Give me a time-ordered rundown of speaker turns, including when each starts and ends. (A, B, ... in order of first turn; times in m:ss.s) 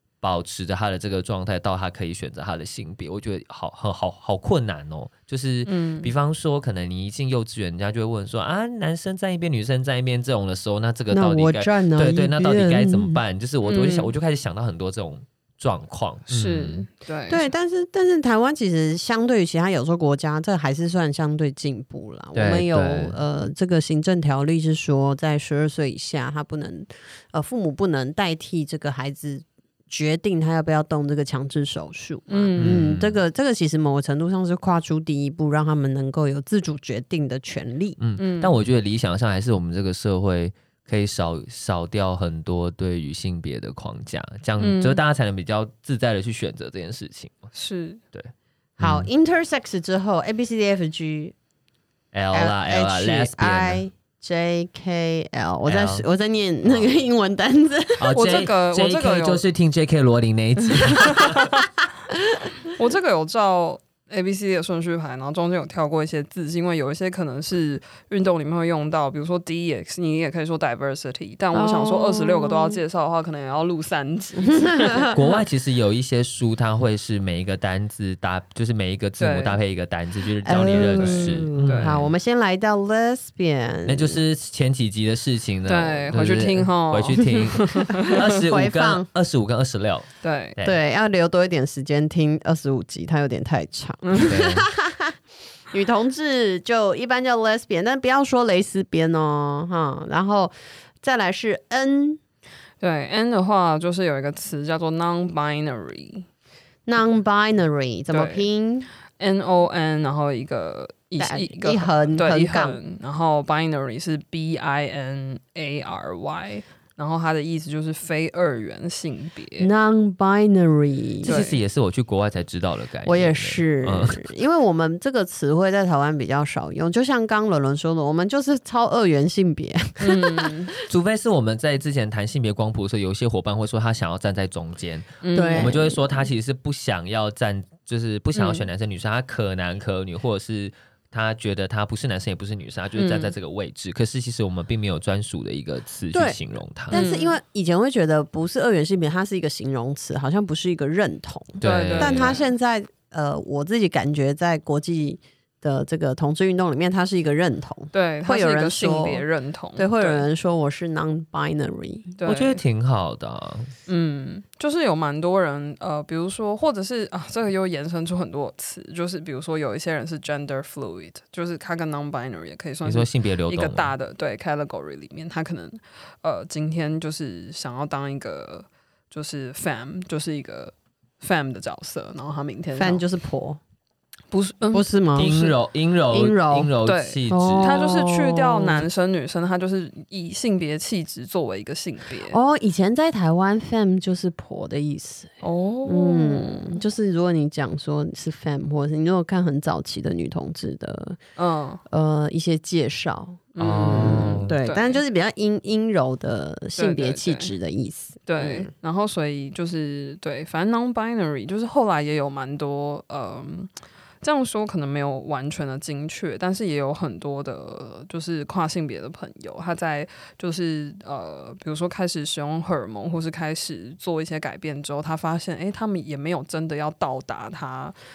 0:00.2-0:16.8 A
0:05.6-0:06.1 B
0:11.1-0:13.2 C
0:13.6-0:14.1 B
0:16.3-0:17.5 B
0:17.3-0:38.0 C
0:22.4-0:23.1 A
0:32.3-0:32.8 B
0:32.6-0:33.2 A
0:38.0-0:47.5 A
0:38.2-0:38.5 B
0:44.6-0:45.0 B
0:47.5-0:48.0 B
0:48.1-0:49.1 A
0:48.8-0:51.4 C
0:52.1-0:53.8 A
0:52.3-0:58.2 C
0:55.6-0:56.1 A
0:56.6-0:56.9 A
0:58.0-1:01.5 A
0:58.1-0:59.4 B
1:00.8-1:01.5 B
1:02.7-1:15.1 B
1:11.5-1:12.8 C
1:14.4-1:15.2 C
1:15.1-1:22.1 A
1:19.2-1:19.6 B
1:20.4-1:24.2 C
1:20.8-1:21.9 B
1:23.9-1:30.8 A
1:25.7-1:28.2 B
1:28.4-1:29.1 C
1:30.2-1:30.6 B
1:30.6-1:35.1 C
1:34.2-1:34.7 A
1:35.7-1:42.2 C
1:42.8-1:46.3 B
1:46.9-1:48.9 C
1:48.1-1:48.4 B
1:49.2-1:59.7 B
1:51.2-1:52.8 C
1:59.6-2:01.4 C
2:01.2-2:04.3 A
2:01.2-2:01.6 B
2:03.0-2:10.5 C
2:10.0-2:10.7 B
2:10.8-2:27.0 A
2:15.2-2:15.8 B
2:15.3-2:16.1 C
2:18.4-2:18.6 B
2:23.0-2:23.3 B
2:26.1-2:39.2 C
2:26.9-2:27.4 B
2:31.6-2:32.4 A
2:31.6-2:32.4 B
2:37.9-2:40.2 B
2:39.8-2:42.2 C
2:42.2-2:42.6 B
2:42.2-2:43.7 A
2:43.9-3:03.0 B
2:52.8-2:53.9 A
3:02.8-3:03.6 C
3:04.3-3:04.9 B
3:04.7-3:05.6 C
3:05.2-3:07.9 A
3:06.1-3:06.7 C
3:06.8-3:12.4 B
3:07.3-3:08.9 C
3:12.3-3:15.3 C
3:15.4-3:16.8 B
3:15.8-3:21.2 C
3:21.4-3:21.8 B
3:21.9-3:28.7 C
3:23.6-3:25.0 B
3:23.6-3:24.6 A
3:26.8-3:27.5 B
3:28.2-3:33.7 B
3:34.2-3:48.0 B